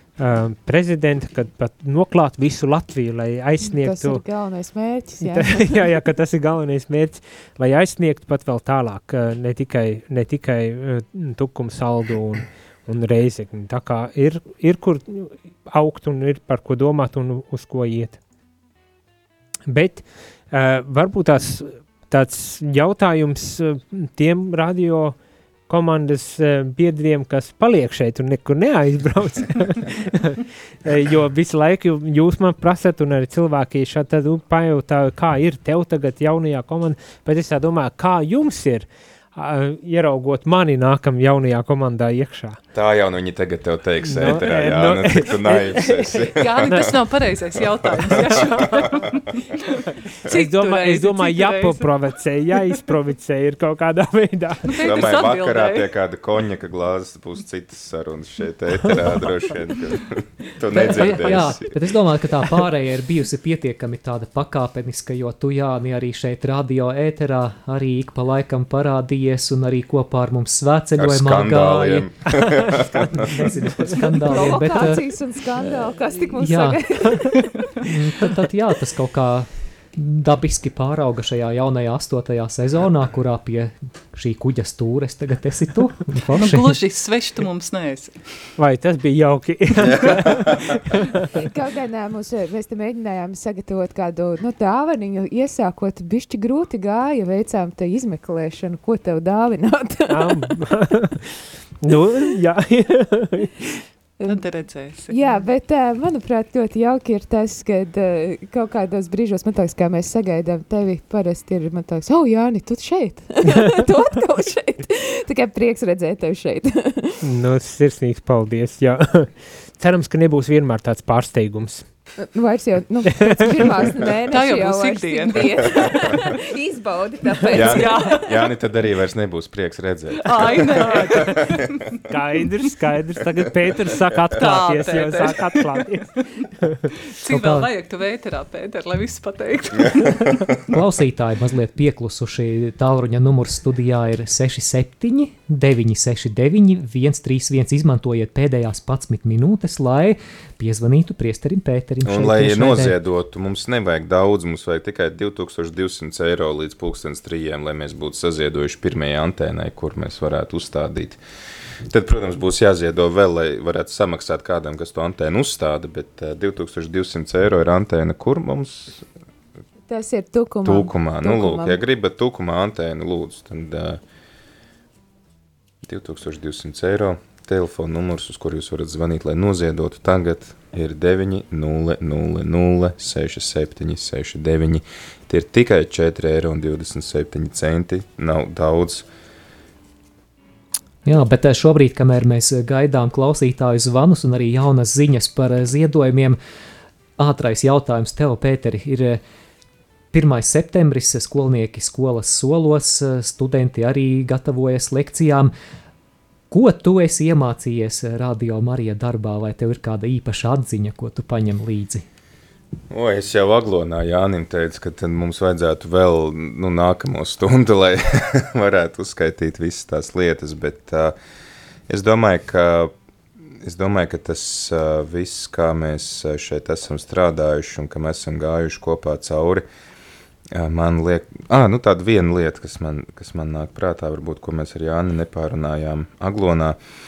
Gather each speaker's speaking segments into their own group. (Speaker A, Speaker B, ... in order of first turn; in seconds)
Speaker A: 0.2-4.2, 5.2-18.2, 19.7-25.2, 25.7-42.6, 44.0-46.1, 50.3-54.7, 88.6-91.2, 100.1-103.8, 117.2-121.8, 130.8-131.4, 132.1-136.1
Speaker B: 3.6-5.7, 74.2-77.5, 91.3-100.5, 105.1-117.2, 122.2-128.2, 169.9-171.8
Speaker C: 42.7-47.0, 48.0-48.9, 54.8-61.8, 71.0-73.5, 89.8-90.5, 127.5-131.6, 152.1-161.2, 161.9-169.1, 170.7-174.0, 175.8-189.1, 212.9-221.2, 221.9-222.9, 223.6-229.7, 230.5-236.8
Speaker D: 45.9-49.6, 50.2-52.0, 54.7-55.9, 86.3-88.2, 104.3-105.3, 124.3-125.7, 127.5-128.5, 130.2-131.8, 134.4-135.8, 137.2-140.5
Speaker E: 60.7-72.1, 72.7-75.1, 75.7-86.8, 137.2-137.7, 140.7-152.9, 191.1-196.4, 197.2-199.2, 200.1-205.5, 206.5-212.1